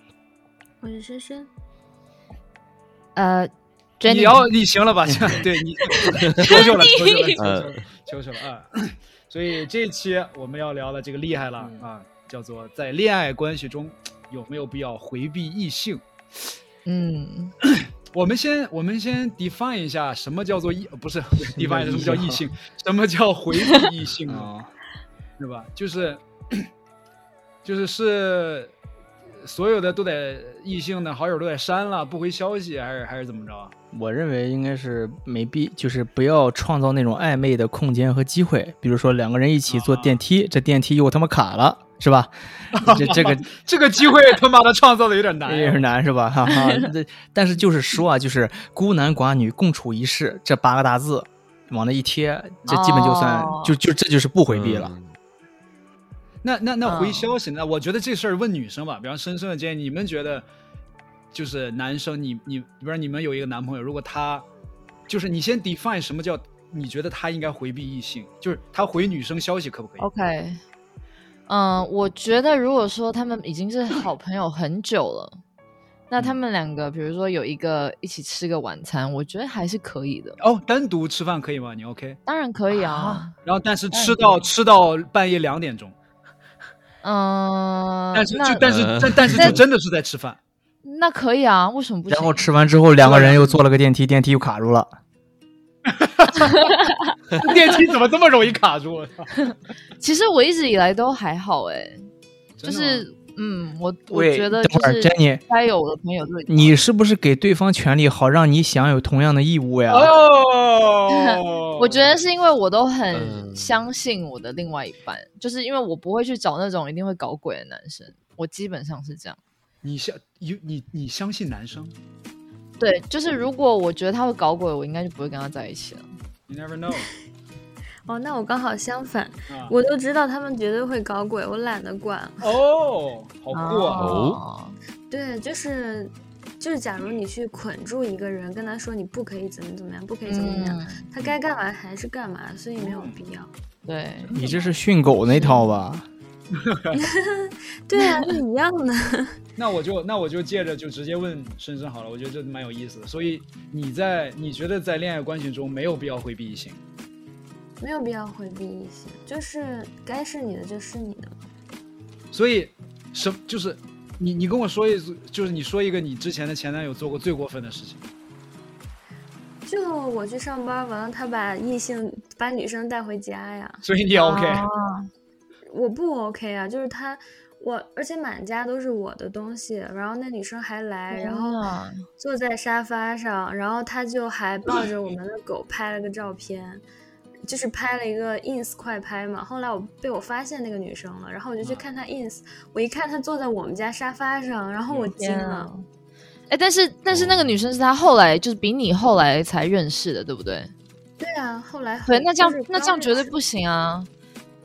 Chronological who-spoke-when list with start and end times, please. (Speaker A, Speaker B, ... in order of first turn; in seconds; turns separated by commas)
Speaker A: 0.8-1.5, Speaker B: 3.1-4.5, Speaker C: 4.0-16.0, Speaker B: 6.2-7.4, Speaker D: 6.2-6.6, Speaker D: 7.3-7.9, Speaker E: 11.6-11.8, Speaker B: 16.8-17.5, Speaker C: 17.6-24.5, Speaker E: 21.5-22.4, Speaker E: 24.3-24.7, Speaker C: 25.4-26.7, Speaker C: 27.6-28.7, Speaker C: 29.4-33.7, Speaker E: 33.9-43.5, Speaker C: 39.7-40.2, Speaker C: 42.7-45.9, Speaker E: 45.4-54.9, Speaker B: 52.7-53.8, Speaker D: 54.5-55.1, Speaker C: 56.4-60.4, Speaker B: 56.8-57.3, Speaker C: 61.3-64.5, Speaker C: 65.1-70.1, Speaker B: 70.0-70.6, Speaker B: 71.5-75.4, Speaker B: 76.1-80.4, Speaker C: 80.4-82.2, Speaker B: 82.2-83.3, Speaker E: 82.7-83.2, Speaker C: 83.4-85.9, Speaker A: 83.9-84.2, Speaker B: 87.0-88.6, Speaker C: 88.1-90.4, Speaker D: 88.6-89.6, Speaker B: 89.3-89.6, Speaker B: 90.8-92.5, Speaker E: 92.1-94.9, Speaker C: 93.0-93.6, Speaker C: 95.8-96.7, Speaker C: 97.4-99.4, Speaker B: 100.0-102.1, Speaker C: 102.6-103.1, Speaker B: 102.6-106.8, Speaker E: 104.1-105.4, Speaker E: 106.5-110.1, Speaker C: 109.9-112.2, Speaker B: 111.1-119.4, Speaker D: 113.1-113.8, Speaker C: 119.8-121.9, Speaker B: 122.8-126.0, Speaker C: 126.5-127.1, Speaker A: 128.1-132.6, Speaker C: 129.5-129.7, Speaker C: 132.4-134.1, Speaker B: 133.5-134.8, Speaker D: 133.9-134.4, Speaker A: 135.1-143.5, Speaker B: 140.3-141.0, Speaker C: 142.8-143.2, Speaker B: 143.8-144.3, Speaker C: 144.2-144.7, Speaker E: 144.3-146.1, Speaker C: 146.6-147.0, Speaker A: 147.0-149.3, Speaker C: 149.6-156.8, Speaker A: 157.8-161.4, Speaker C: 162.3-168.0, Speaker A: 169.7-173.8, Speaker C: 173.8-174.7, Speaker B: 174.1-175.1, Speaker A: 175.7-181.6, Speaker B: 181.1-182.0, Speaker A: 182.2-186.8, Speaker A: 187.4-195.7, Speaker C: 191.6-191.8, Speaker B: 195.2-195.8, Speaker B: 196.5-200.7, Speaker D: 197.1-197.6, Speaker A: 201.2-203.3, Speaker B: 202.0-204.1